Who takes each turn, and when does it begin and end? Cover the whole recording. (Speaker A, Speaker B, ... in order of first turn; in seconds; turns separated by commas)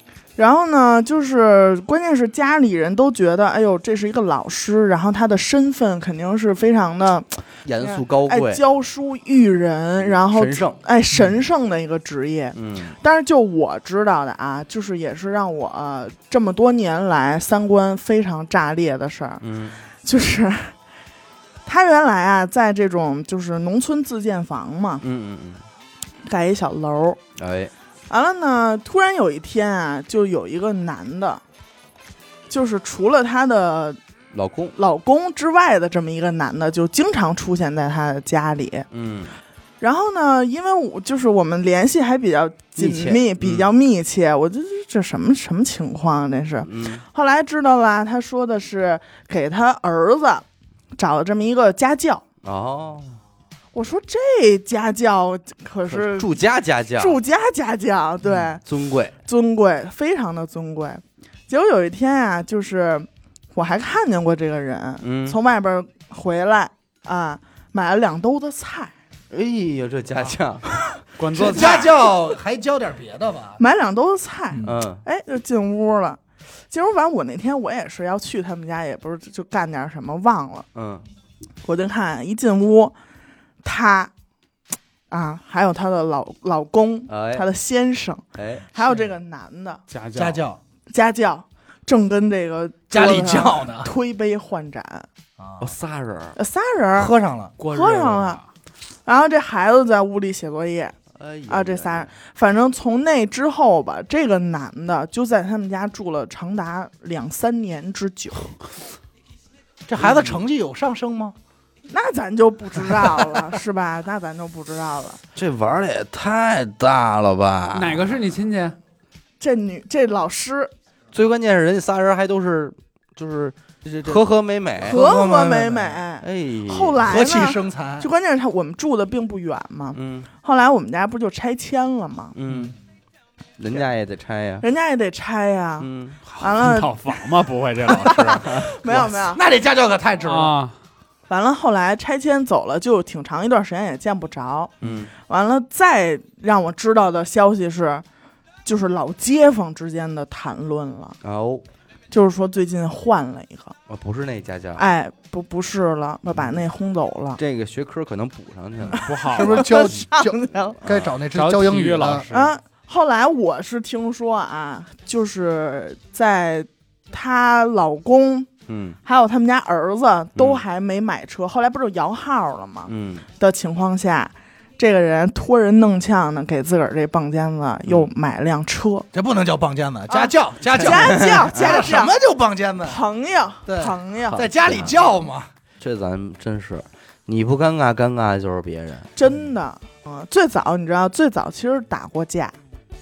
Speaker A: 0.4-19.4, Speaker B: 7.6-8.6, Speaker B: 10.0-10.8, Speaker B: 12.6-13.0, Speaker B: 19.4-19.8, Speaker A: 20.0-20.7, Speaker A: 21.6-25.1, Speaker B: 25.0-25.6, Speaker A: 26.2-27.2, Speaker B: 27.4-27.7, Speaker A: 28.1-31.4, Speaker A: 32.5-34.0, Speaker B: 34.3-34.8, Speaker A: 34.8-38.9, Speaker B: 38.9-39.4, Speaker A: 39.8-50.5, Speaker B: 42.8-43.7, Speaker B: 46.6-47.0, Speaker A: 51.0-52.2, Speaker B: 52.4-53.2, Speaker A: 53.7-56.4, Speaker B: 55.9-57.2, Speaker A: 57.0-58.6, Speaker B: 58.3-59.1, Speaker A: 59.2-68.9, Speaker B: 65.0-65.4, Speaker B: 69.3-70.7, Speaker C: 71.2-72.0, Speaker D: 71.3-73.6, Speaker A: 73.6-80.7, Speaker D: 74.5-74.8, Speaker B: 74.6-75.0, Speaker B: 80.8-81.0, Speaker A: 81.6-82.9, Speaker A: 83.6-84.1, Speaker A: 85.1-89.8, Speaker B: 87.1-87.5, Speaker B: 88.3-88.7, Speaker C: 89.9-90.4, Speaker D: 90.2-90.6, Speaker A: 90.9-95.1, Speaker D: 92.9-93.9, Speaker D: 95.4-95.7, Speaker B: 95.6-96.4, Speaker A: 96.4-97.1, Speaker D: 97.0-97.6, Speaker C: 97.6-98.5, Speaker A: 97.7-98.4, Speaker A: 99.1-100.9, Speaker B: 101.2-102.1, Speaker A: 101.5-108.6, Speaker D: 109.9-111.3, Speaker B: 110.0-110.4, Speaker A: 111.9-115.2, Speaker B: 115.3-118.2, Speaker C: 117.7-118.8, Speaker A: 119.4-120.7, Speaker B: 121.1-125.0, Speaker D: 123.8-124.2, Speaker D: 124.8-126.0, Speaker A: 124.9-132.3, Speaker B: 126.2-127.1, Speaker D: 127.0-128.1, Speaker B: 129.9-130.3, Speaker B: 132.3-132.8, Speaker B: 133.6-134.6, Speaker A: 134.6-135.9, Speaker B: 135.8-136.2, Speaker C: 136.3-138.7, Speaker A: 136.4-137.0, Speaker A: 137.9-139.4, Speaker D: 138.9-140.6, Speaker C: 140.2-140.8, Speaker A: 141.3-148.0, Speaker B: 144.8-145.1, Speaker A: 148.7-151.2, Speaker B: 151.2-151.7, Speaker A: 152.1-153.8, Speaker B: 153.9-154.8, Speaker A: 154.8-157.4, Speaker B: 157.4-159.1, Speaker A: 158.9-160.8, Speaker C: 159.0-160.0, Speaker D: 159.3-162.3, Speaker B: 160.8-161.1, Speaker C: 160.9-162.5, Speaker A: 162.3-168.5, Speaker B: 168.7-169.0, Speaker A: 169.1-179.1, Speaker B: 170.4-170.7, Speaker B: 172.9-173.3, Speaker D: 179.1-183.0, Speaker A: 180.1-182.2, Speaker B: 180.9-181.7, Speaker A: 182.8-184.5, Speaker D: 183.7-185.5, Speaker B: 184.6-185.0, Speaker B: 185.8-189.1, Speaker A: 189.2-192.6